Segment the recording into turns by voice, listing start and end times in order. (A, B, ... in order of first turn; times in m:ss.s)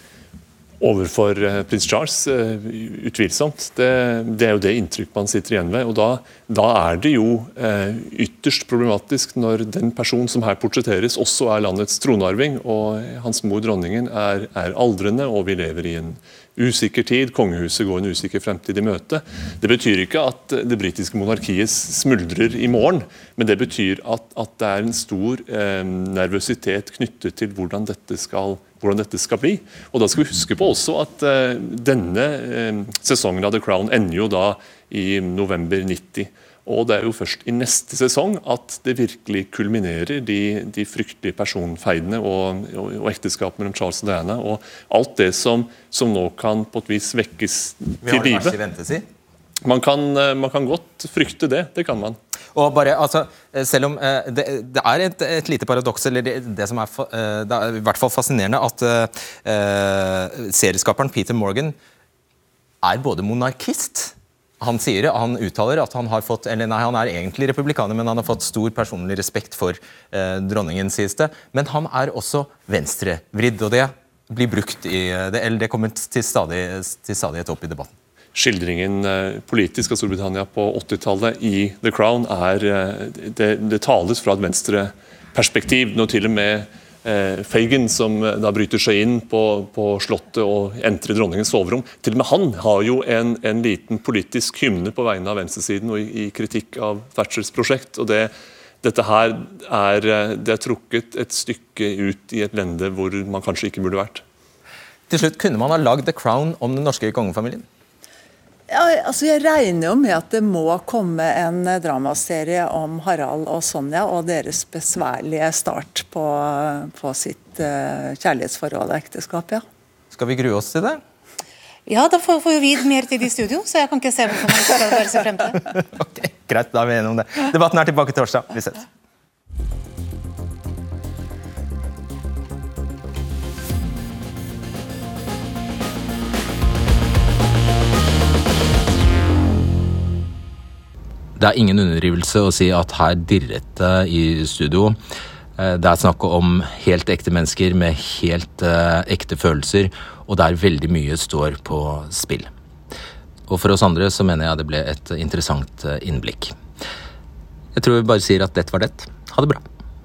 0:00.8-0:48.6 A
0:48.0-0:49.0 B
0:49.6-0:52.2 A
0:52.5-1:01.8 B
1:02.8-1:17.9 B
1:18.3-1:44.2 A
1:45.1-1:47.6 B
1:48.7-1:59.6 C
2:00.1-2:01.0 B
2:01.9-2:05.6 D
2:05.8-2:08.8 B
2:21.4-2:25.0 B
2:25.6-2:32.5 B
2:33.5-2:36.6 B
2:37.7-2:39.6 B